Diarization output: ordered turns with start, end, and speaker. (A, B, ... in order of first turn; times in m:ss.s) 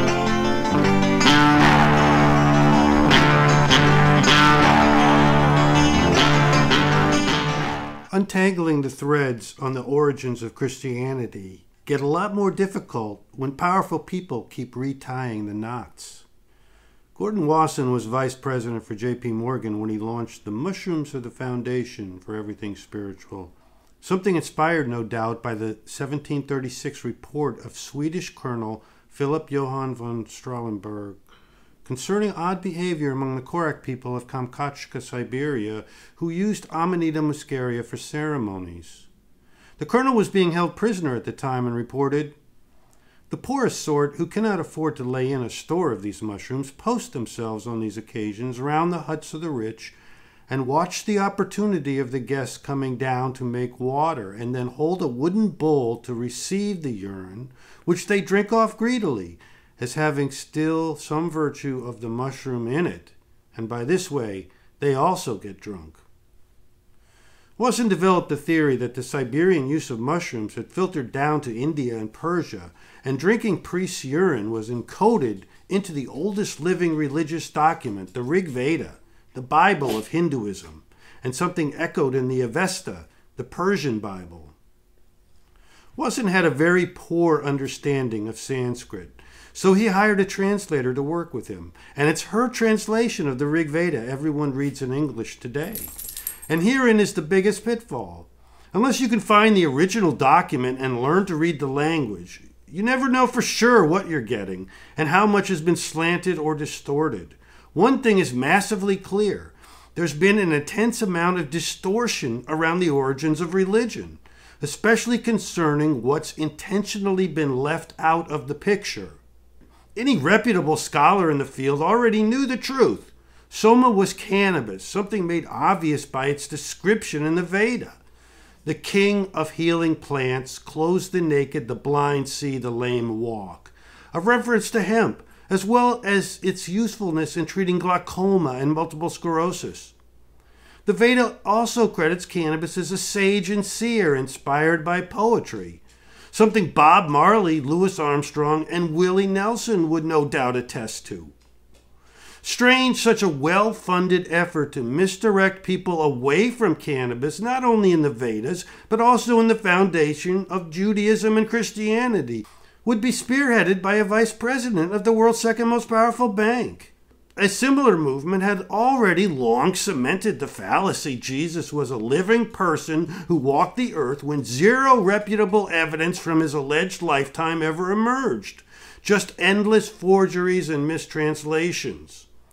0:08.1-0:16.2 A
0:17.1-0:31.2 A
0:31.8-0:39.1 A
0:39.8-0:42.4 A
0:43.3-0:50.0 A
0:50.5-1:06.0 A
1:07.6-1:24.6 A
1:26.0-1:35.9 A
1:36.5-1:59.2 A
1:59.9-2:08.0 A
2:08.6-2:19.9 A
2:20.8-2:31.3 A
2:32.4-3:02.3 A